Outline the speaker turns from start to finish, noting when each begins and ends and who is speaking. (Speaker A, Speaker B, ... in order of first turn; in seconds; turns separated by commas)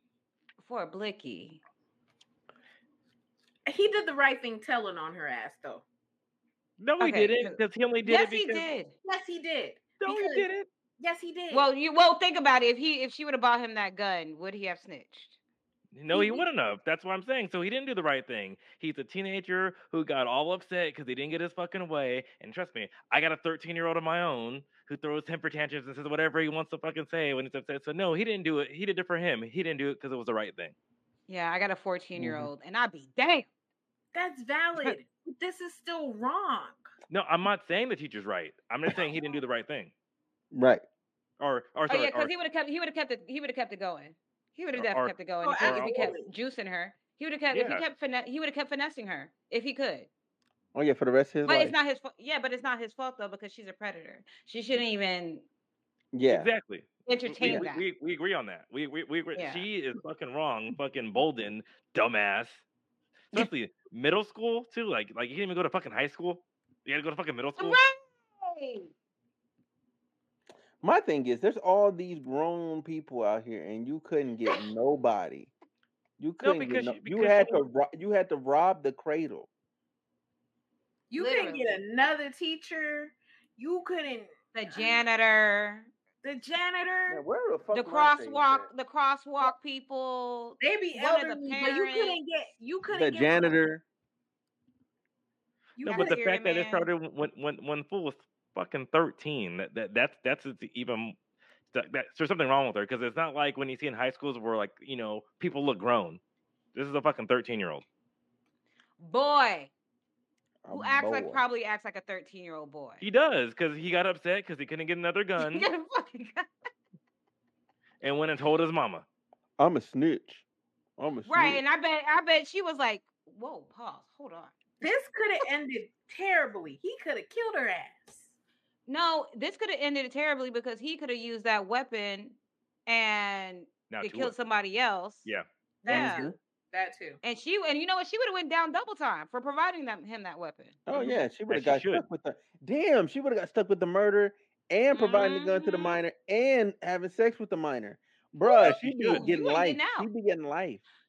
Speaker A: 0.6-1.6, Speaker B: 3.6-5.8, Speaker C: 6.8-8.7, Speaker A: 7.0-8.9, Speaker B: 9.0-10.5, Speaker C: 10.0-10.7, Speaker B: 11.0-11.7, Speaker A: 11.5-15.4, Speaker C: 15.9-30.7, Speaker A: 16.1-16.4, Speaker A: 31.3-33.5, Speaker D: 32.1-32.5, Speaker B: 34.1-36.9, Speaker C: 37.1-39.9, Speaker D: 40.5-40.8, Speaker C: 41.4-42.3, Speaker A: 41.9-50.1, Speaker C: 44.7-46.1, Speaker B: 45.4-46.3, Speaker C: 47.5-47.8, Speaker D: 50.7-51.8, Speaker A: 51.4-55.5, Speaker D: 56.1-56.5, Speaker C: 56.3-62.6, Speaker A: 57.0-57.9, Speaker D: 57.4-57.7, Speaker A: 59.3-59.7, Speaker C: 63.3-67.8, Speaker A: 67.6-68.9, Speaker D: 70.8-75.5, Speaker D: 76.2-79.5, Speaker C: 76.4-77.6, Speaker B: 81.1-85.0, Speaker A: 81.1-81.8, Speaker A: 84.5-85.9, Speaker B: 86.2-87.2, Speaker D: 87.1-88.7, Speaker A: 87.7-92.2, Speaker B: 90.6-93.7, Speaker D: 92.9-93.8, Speaker B: 95.8-96.2, Speaker A: 95.8-96.9, Speaker C: 95.9-101.2, Speaker C: 101.7-106.2, Speaker C: 106.7-107.8, Speaker A: 109.0-109.7, Speaker D: 110.6-111.5, Speaker A: 110.7-113.0, Speaker C: 113.0-115.7, Speaker A: 115.4-116.5, Speaker C: 118.0-119.0, Speaker D: 119.6-120.4, Speaker D: 121.0-121.6, Speaker A: 121.2-124.5, Speaker B: 124.8-128.3, Speaker A: 128.9-135.3, Speaker C: 133.9-134.3, Speaker C: 135.2-136.1, Speaker A: 135.8-136.3, Speaker D: 135.9-136.3, Speaker B: 136.7-137.2, Speaker A: 137.2-140.8, Speaker D: 140.9-150.8, Speaker C: 140.9-142.0, Speaker A: 144.9-146.0, Speaker A: 148.4-150.1, Speaker C: 148.6-149.3